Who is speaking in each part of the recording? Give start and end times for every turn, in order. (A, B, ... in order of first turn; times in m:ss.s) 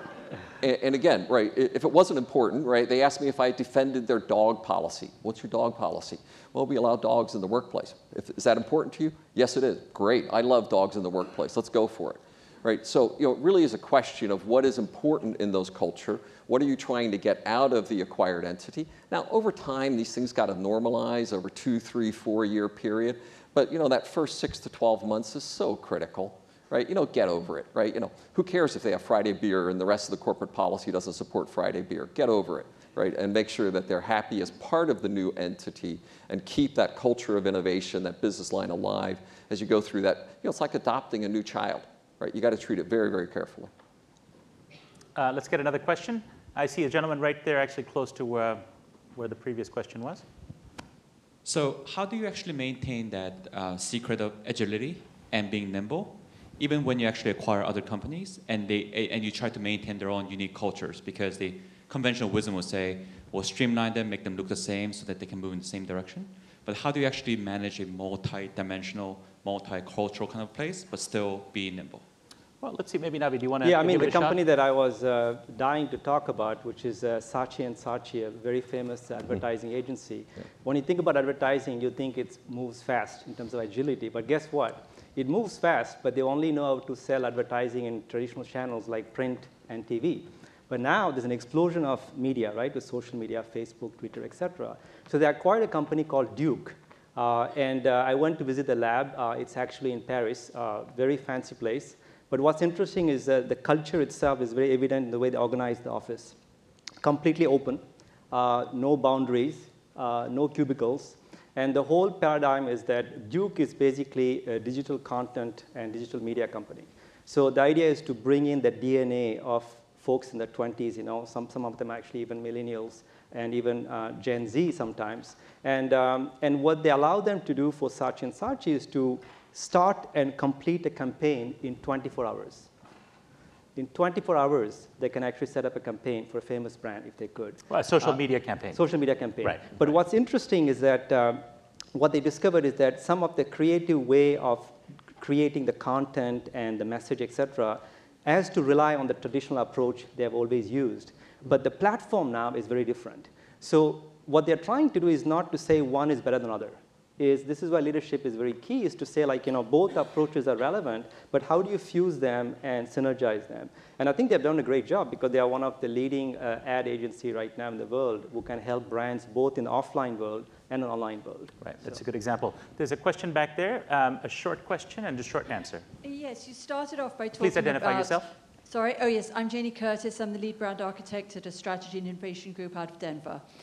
0:00.6-0:43.7 A
0:45.2-0:48.6 B
0:49.2-0:50.2 B
0:51.4-1:12.1 C
1:12.6-1:14.4 B
1:13.6-1:46.4 D
1:47.0-2:12.7 D
2:13.8-2:51.6 D
2:17.7-2:18.8 B
2:19.4-2:19.7 B
2:51.6-2:55.8 B
2:56.0-3:03.4 E
2:57.4-2:58.3 B